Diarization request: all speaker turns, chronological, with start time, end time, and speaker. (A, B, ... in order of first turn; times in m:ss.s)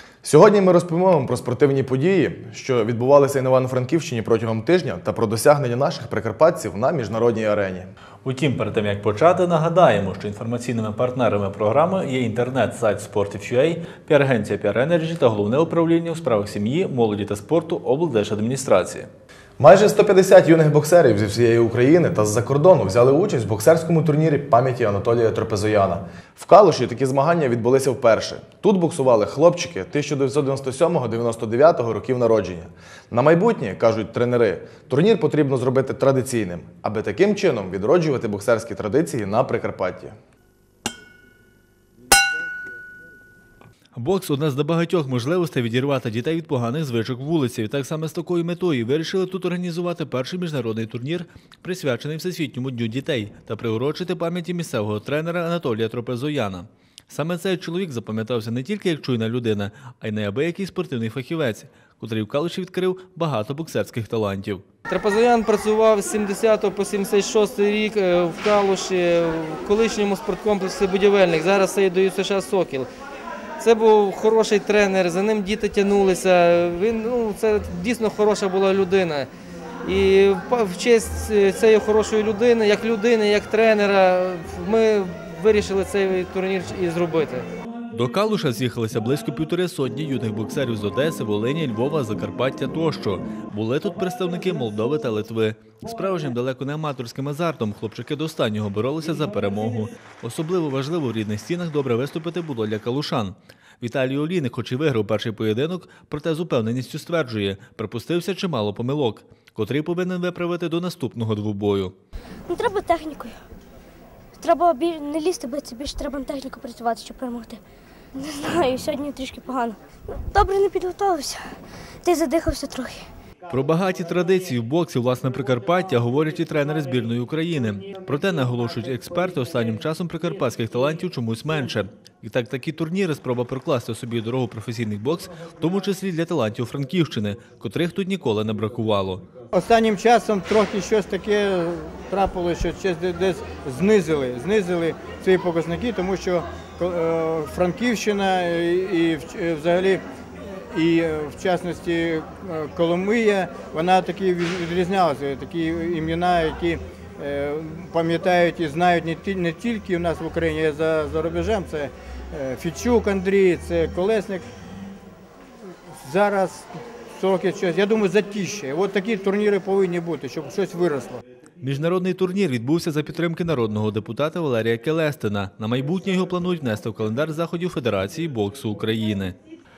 0:00.2-0:07.9 A
0:08.2-0:19.1 B
0:19.6-0:40.1 A
0:43.9-1:04.6 B
1:04.9-1:12.9 C
1:13.6-1:19.3 C
1:19.8-1:27.5 C
1:27.9-1:51.9 B
1:52.5-1:53.4 D
1:54.4-1:57.6 D
1:58.2-2:01.4 D
2:02.0-2:03.0 D
2:03.5-2:19.2 B
2:19.5-2:44.4 E
2:46.0-2:51.2 E
2:51.6-2:59.4 B